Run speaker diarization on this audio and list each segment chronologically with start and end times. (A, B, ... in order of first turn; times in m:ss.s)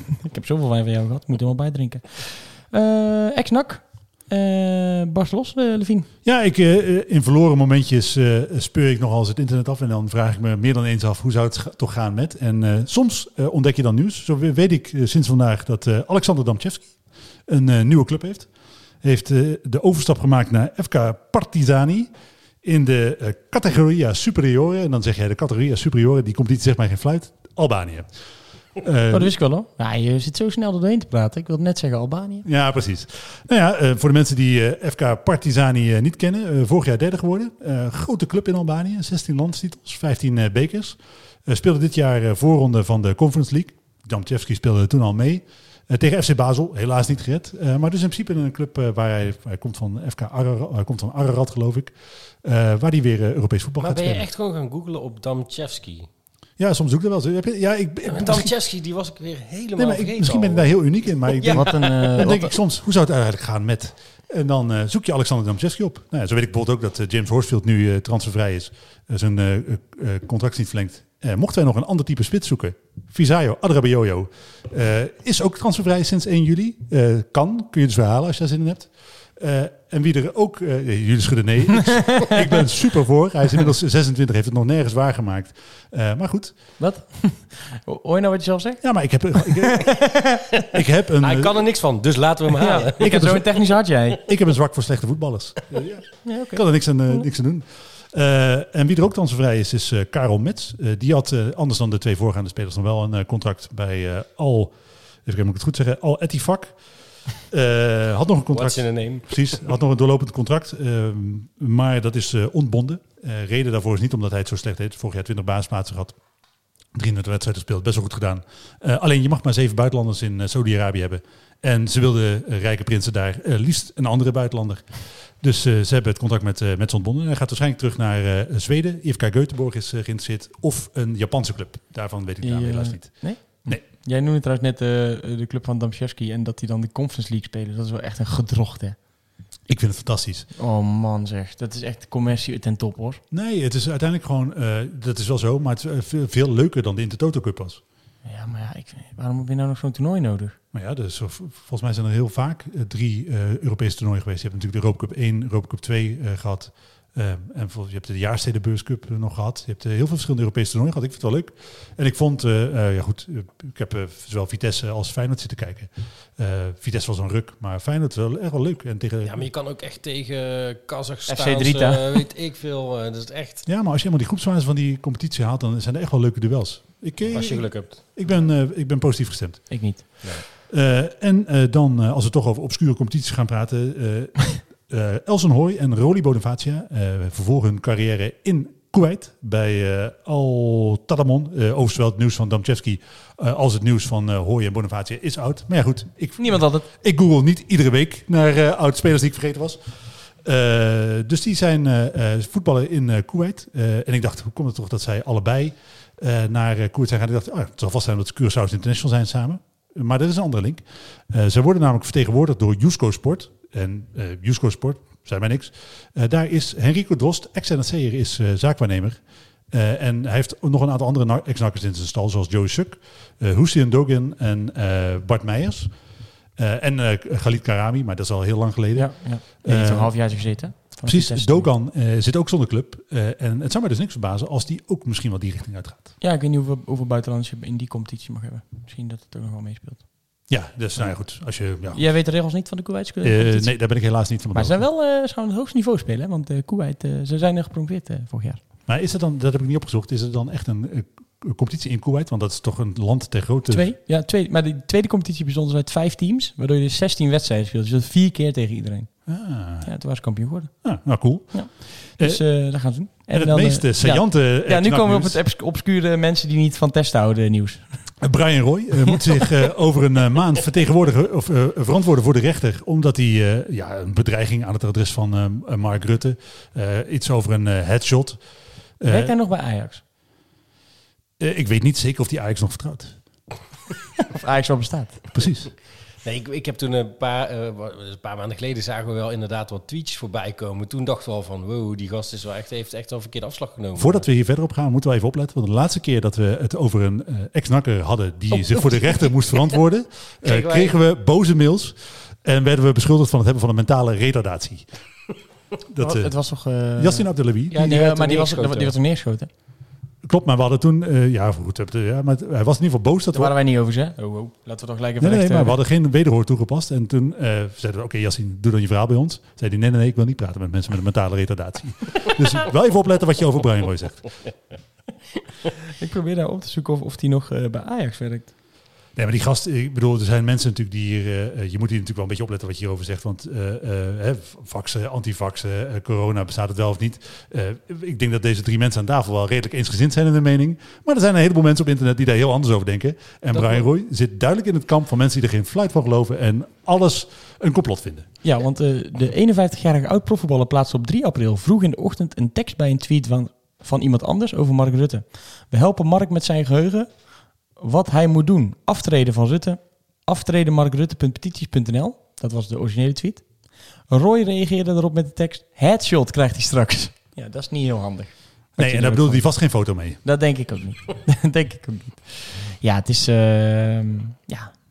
0:00.2-0:06.1 A
0:06.2-0:22.1 B
0:22.6-0:28.1 B
0:28.8-0:29.4 B
0:29.1-0:32.5 A
0:32.4-0:54.3 B
0:53.8-0:56.1 C
0:56.6-0:58.5 B
0:58.1-1:01.7 C
0:59.8-1:26.8 B
1:01.5-1:02.5 A
1:26.8-1:30.4 A
1:28.8-1:31.7 B
1:31.2-1:33.4 C
1:32.6-1:34.2 A
1:33.0-1:56.2 B
1:36.2-1:37.2 A
1:48.5-1:49.7 C
1:56.9-2:13.8 B
2:12.4-2:19.0 A
2:19.7-2:20.5 B
2:20.6-2:23.2 A
2:23.3-2:27.8 B
2:28.2-2:30.6 A
2:30.7-2:49.4 B
2:49.2-2:53.6 C
2:51.3-2:52.2 A
2:53.6-3:46.0 B
2:57.3-2:58.0 C
2:59.7-3:00.0 A
3:16.4-3:16.9 A
3:46.6-3:56.1 B
3:49.0-3:51.7 A
3:56.2-4:08.6 A
4:00.5-4:02.1 B
4:03.2-4:04.8 B
4:08.9-4:13.9 B
4:13.7-4:28.2 A
4:19.3-4:20.0 B
4:20.8-4:25.4 B
4:28.2-4:38.4 B
4:39.0-4:39.3 B
4:39.0-4:40.0 A
4:41.4-4:43.2 B
4:44.3-4:45.2 A
4:45.3-4:45.7 B
4:46.2-4:54.3 C
4:54.0-5:04.9 B
4:58.8-4:59.7 C
5:00.4-5:01.0 C
5:05.9-5:07.8 B
5:06.0-5:09.5 A
5:07.7-5:08.9 C
5:10.2-5:13.5 B
5:13.3-5:15.8 A
5:15.2-5:24.3 B
5:26.0-5:28.5 A
5:29.2-5:48.3 B
5:43.5-5:43.8 C
5:48.4-6:14.8 A
6:08.8-6:10.2 B